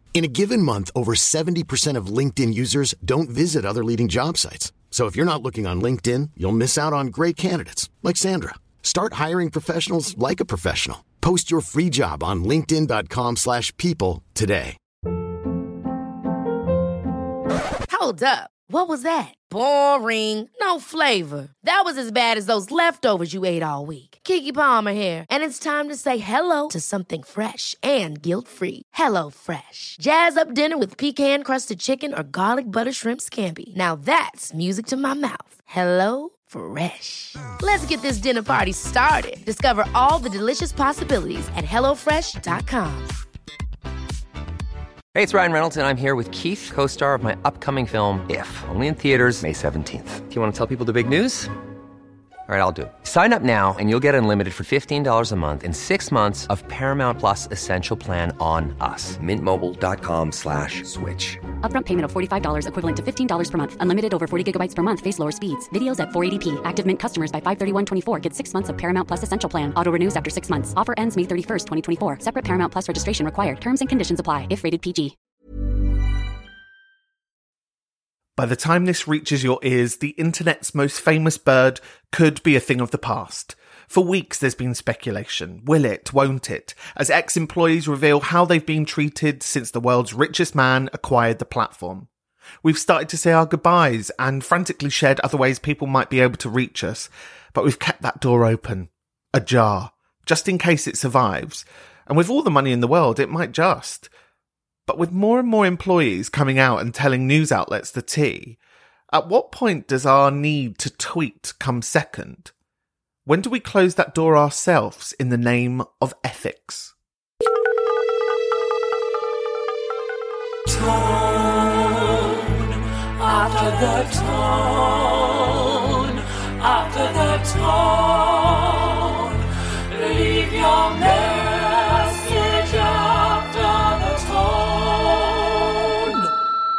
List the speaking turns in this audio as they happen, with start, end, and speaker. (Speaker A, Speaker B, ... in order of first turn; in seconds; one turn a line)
Speaker A: 0.1-14.8
Speaker B: 17.9-43.1
Speaker C: 45.1-51.5
Speaker C: 52.5-61.4
Speaker D: 61.6-75.1
Speaker E: 78.3-92.1
Speaker E: 92.6-104.1
Speaker E: 104.9-108.6
Speaker E: 109.1-112.5
Speaker E: 113.2-116.9
Speaker F: 120.7-122.3
Speaker F: 123.2-125.2
Speaker F: 126.6-128.9
Speaker F: 129.9-136.0